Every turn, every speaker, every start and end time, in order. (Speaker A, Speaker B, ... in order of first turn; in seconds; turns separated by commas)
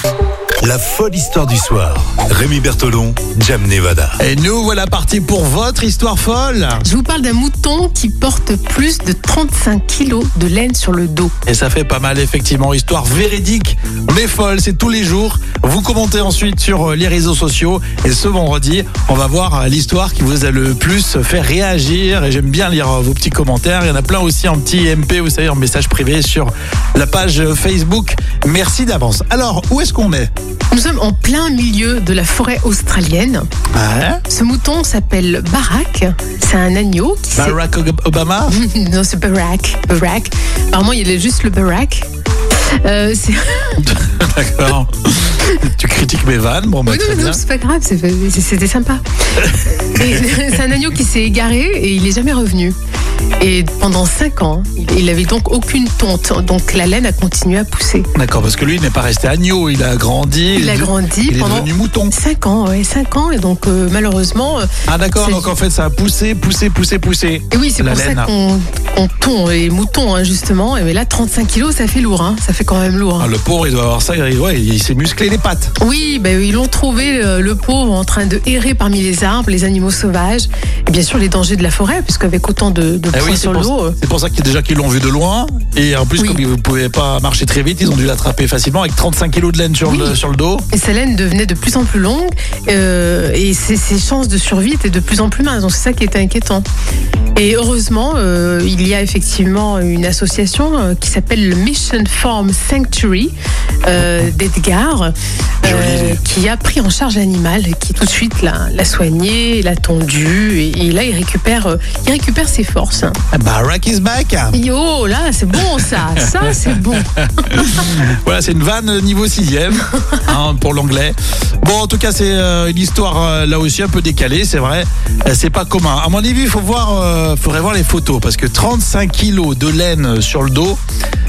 Speaker A: 0.6-4.2, Speaker B: 4.2-6.8, Speaker C: 6.8-11.3, Speaker B: 11.5-30.3, Speaker C: 30.7-33.5, Speaker B: 33.7-34.2, Speaker C: 34.3-37.6, Speaker B: 37.3-38.6, Speaker C: 38.5-42.1, Speaker C: 42.8-43.8, Speaker B: 43.8-47.4, Speaker C: 46.9-52.8, Speaker B: 49.4-50.2, Speaker C: 53.4-58.1, Speaker B: 58.1-62.1, Speaker C: 60.5-65.5, Speaker B: 64.9-68.3, Speaker C: 67.5-73.3, Speaker B: 73.2-75.7, Speaker C: 75.8-84.0, Speaker B: 83.1-90.7, Speaker C: 89.9-90.2, Speaker C: 90.7-96.7, Speaker C: 97.4-103.3, Speaker C: 103.8-113.2, Speaker B: 105.6-106.2, Speaker B: 113.3-114.6, Speaker C: 114.5-117.1, Speaker B: 115.8-130.8